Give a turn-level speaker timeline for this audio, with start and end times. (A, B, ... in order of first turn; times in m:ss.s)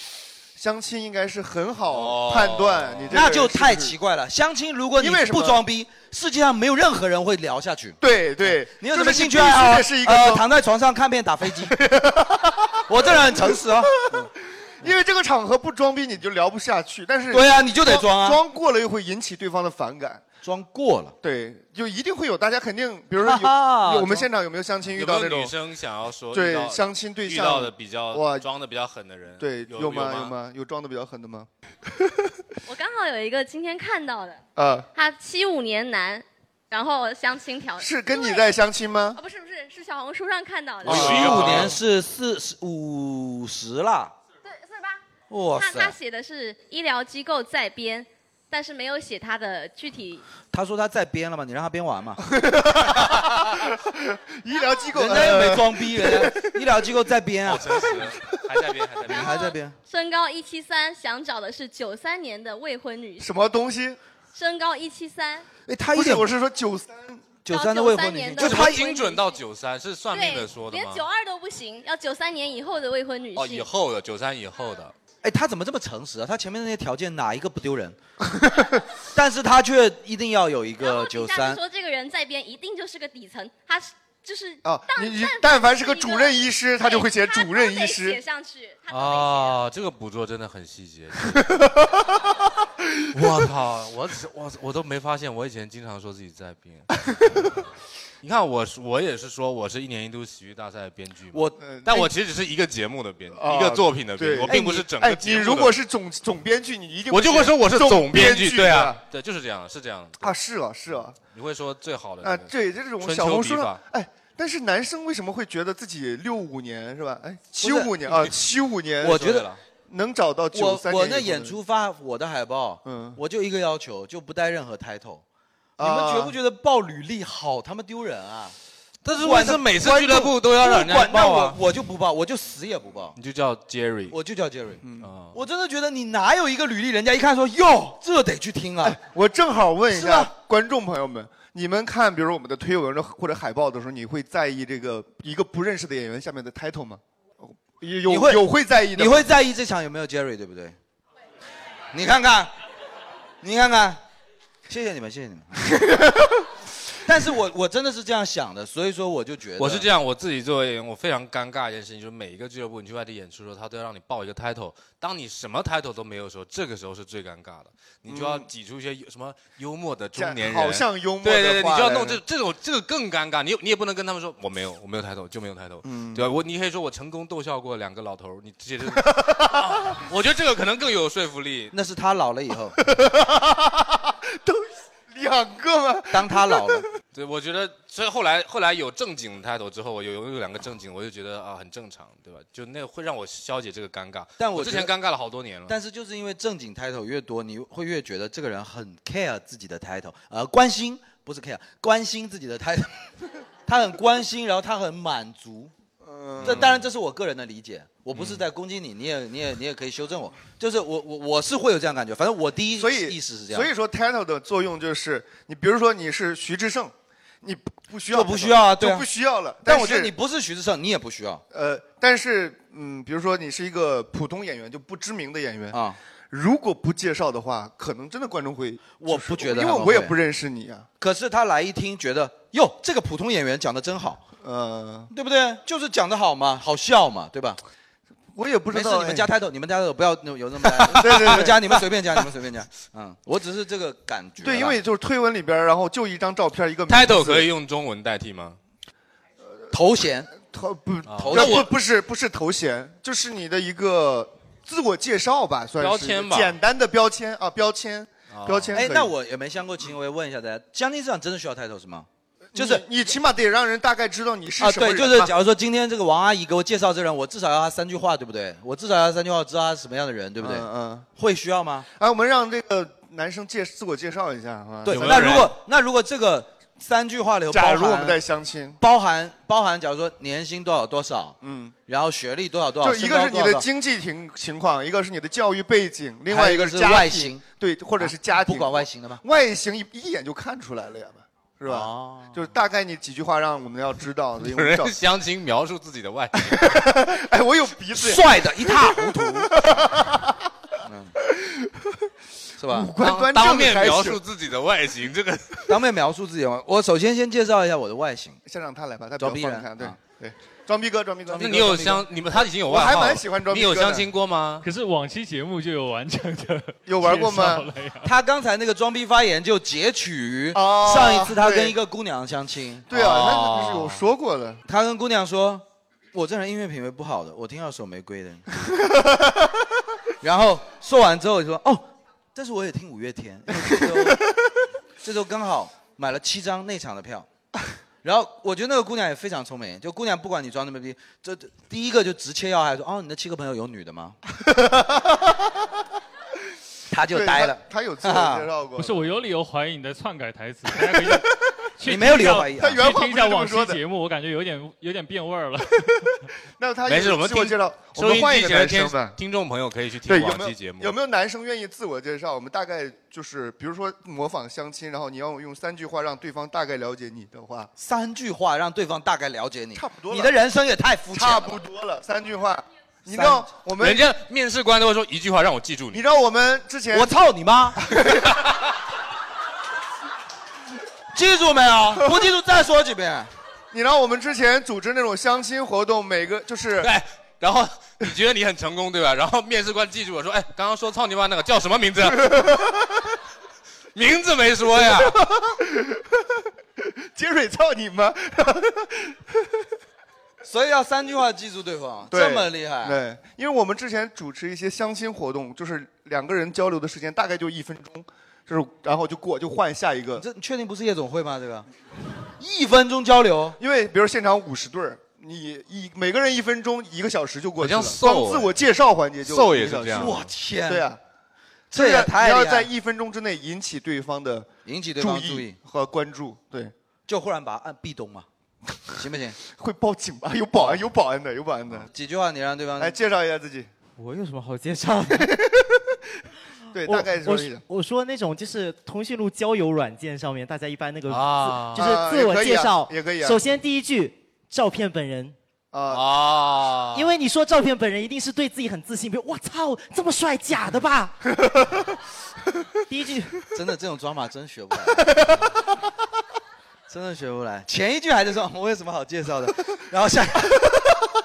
0:00.6-0:04.0 A
0:01.9-0:03.3 B
0:03.1-0:11.8 C
0:05.0-0:05.6 A
0:08.0-0:10.5 A
0:11.6-0:20.2 A
0:12.9-0:14.0 C
0:17.3-0:18.4 C
0:20.4-0:21.2 C
0:21.2-0:25.5 A
0:23.2-0:24.3 C
0:24.9-0:30.4 B
0:26.3-0:28.5 A
0:29.4-0:32.3 A
0:32.7-0:34.4 D
0:34.6-0:34.9 A
0:35.0-0:38.5 D
0:37.8-0:39.2 A
0:39.2-0:41.1 D
0:40.8-0:44.1 C
0:40.8-0:41.8 B
0:40.9-0:41.7 A
0:44.5-0:45.0 D
0:45.3-0:46.0 C
0:45.6-0:50.2 D
0:50.5-0:52.2 C
0:52.3-0:56.6 A
0:54.9-0:57.8 C
0:57.5-0:59.5 B
0:59.1-0:59.8 C
0:59.1-1:03.3 D
1:03.2-1:04.0 A
1:04.3-1:05.5 D
1:05.7-1:06.3 C
1:05.9-1:07.3 A
1:07.4-1:08.8 C
1:07.5-1:09.4 D
1:08.4-1:11.1 B
1:10.1-1:13.7 D
1:13.3-1:14.9 B
1:15.2-1:18.0 C
1:18.3-1:18.8 A
1:19.1-1:21.6 C
1:20.8-1:29.6 D
1:24.6-1:28.2 A
1:28.9-1:31.6 B
1:31.4-1:32.1 A
1:33.1-1:37.4 B
1:38.2-1:45.8 B
1:41.6-1:42.1 A
1:43.3-1:49.0 A
1:44.5-1:44.8 C
1:47.1-1:50.4 B
1:50.2-1:51.2 A
1:51.3-1:53.8 B
1:52.2-2:01.6 A
1:57.6-1:58.1 C
1:59.0-1:59.5 C
1:59.0-1:59.6 B
2:00.5-2:05.2 C
2:02.8-2:03.2 A
2:05.8-2:06.4 A
2:05.8-2:08.6 C
2:09.0-2:11.6 B
2:09.1-2:13.2 C
2:13.2-2:14.2 B
2:14.1-2:14.8 C
2:14.8-2:15.1 A
2:15.0-2:15.4 B
2:15.3-2:19.0 C
2:18.8-2:29.3 A
2:19.9-2:20.3 C
2:28.1-2:30.8 C
2:31.9-2:32.5 C
2:33.4-2:34.0 C
2:34.7-2:35.7 C
2:35.7-2:36.4 A
2:37.0-2:39.9 C
2:39.6-3:01.7 B
2:48.1-2:48.5 A
2:50.2-2:52.2 A
2:55.8-2:56.3 A
2:59.0-2:59.8 A
3:01.7-3:02.8 C
3:02.8-3:06.8 A
3:06.1-3:06.9 C
3:07.1-3:15.8 B
3:14.4-3:14.9 C
3:15.7-3:23.1 C
3:23.7-3:25.7 C
3:26.0-3:26.7 A
3:26.4-3:26.8 B
3:26.4-3:33.7 C
3:28.2-3:28.4 B
3:32.8-3:40.1 A
3:38.1-3:39.1 C
3:39.6-3:41.4 C
3:41.5-3:45.8 A
3:45.7-3:46.0 C
3:46.3-3:50.9 A
3:49.0-3:50.2 C
3:51.0-3:54.2 C
3:54.4-3:55.1 A
3:55.1-3:57.6 C
3:58.3-3:59.3 A
3:58.7-4:04.8 C
4:00.9-4:01.7 A
4:04.4-4:07.5 A
4:06.9-4:08.6 B
4:09.7-4:10.3 C
4:10.4-4:19.1 A
4:11.1-4:11.7 B
4:11.2-4:11.7 C
4:15.8-4:16.6 B
4:18.3-4:18.8 B
4:18.7-4:22.8 C
4:22.5-4:25.3 A
4:24.6-4:31.9 C
4:30.4-4:31.1 A
4:32.0-4:35.5 A
4:34.8-4:38.2 C
4:34.9-4:35.5 B
4:37.5-4:38.8 A
4:38.8-4:43.7 C
4:41.4-4:41.8 A
4:42.8-4:55.0 A
4:46.3-4:47.4 C
4:48.0-4:49.2 C
4:51.7-4:52.4 C
4:54.4-4:56.9 B
4:56.4-5:00.5 A
4:58.0-4:59.6 C
5:00.8-5:01.1 C
5:01.2-5:02.0 A
5:02.6-5:02.9 C
5:02.6-5:04.2 A
5:03.0-5:05.7 B
5:05.7-5:08.4 C
5:08.4-5:12.0 A
5:09.2-5:10.0 C
5:11.3-5:12.0 C
5:11.4-5:14.7 B
5:12.6-5:14.1 A
5:14.6-5:18.1 E
5:16.9-5:17.7 A
5:18.0-5:22.9 C
5:20.5-5:21.8 A
5:22.9-5:24.6 A
5:22.9-5:24.0 B
5:24.7-5:28.5 C
5:28.7-5:29.6 A
5:30.2-5:34.2 C
5:33.7-5:34.4 A
5:35.0-5:37.3 C
5:38.0-5:44.2 C
5:44.4-5:45.6 A
5:46.9-5:48.5 C
5:47.1-5:49.1 A
5:48.8-5:56.1 E
5:50.9-5:51.3 A
5:51.8-5:52.9 C
5:52.5-5:53.8 A
5:56.6-5:59.2 A
5:56.9-6:01.0 B
6:00.1-6:07.7 A
6:07.8-6:11.6 C
6:09.8-6:10.4 A
6:11.1-6:14.1 A
6:13.1-6:13.5 C
6:13.8-6:16.0 B
6:15.9-6:17.1 A
6:16.9-6:17.8 C
6:17.8-6:18.4 A
6:21.1-6:23.3 C
6:23.7-6:26.9 A
6:26.8-6:32.6 B
6:32.1-6:33.1 A
6:34.0-6:35.2 B
6:34.8-6:39.7 A
6:40.4-6:43.0 C
6:42.1-6:50.2 A
6:50.2-6:51.7 C
6:52.4-6:53.6 C
6:53.6-7:01.0 A
6:57.6-6:58.5 B
6:59.2-7:00.2 B
6:59.9-7:00.9 C
7:01.7-7:02.7 C
7:01.7-7:06.7 A
7:04.6-7:05.6 C
7:07.1-7:08.3 C
7:08.9-7:09.4 C
7:09.4-7:11.9 A
7:10.6-7:10.8 C
7:11.7-7:13.0 C
7:12.8-7:13.7 A
7:14.0-7:15.3 F
7:15.1-7:15.8 A
7:16.7-7:17.6 A
7:16.8-7:25.4 F
7:21.1-7:21.9 B
7:21.8-7:23.4 A
7:25.7-7:26.0 A
7:25.9-7:27.1 B
7:26.9-7:31.2 F
7:32.9-7:33.4 F
7:33.5-7:35.2 C
7:36.9-7:40.7 C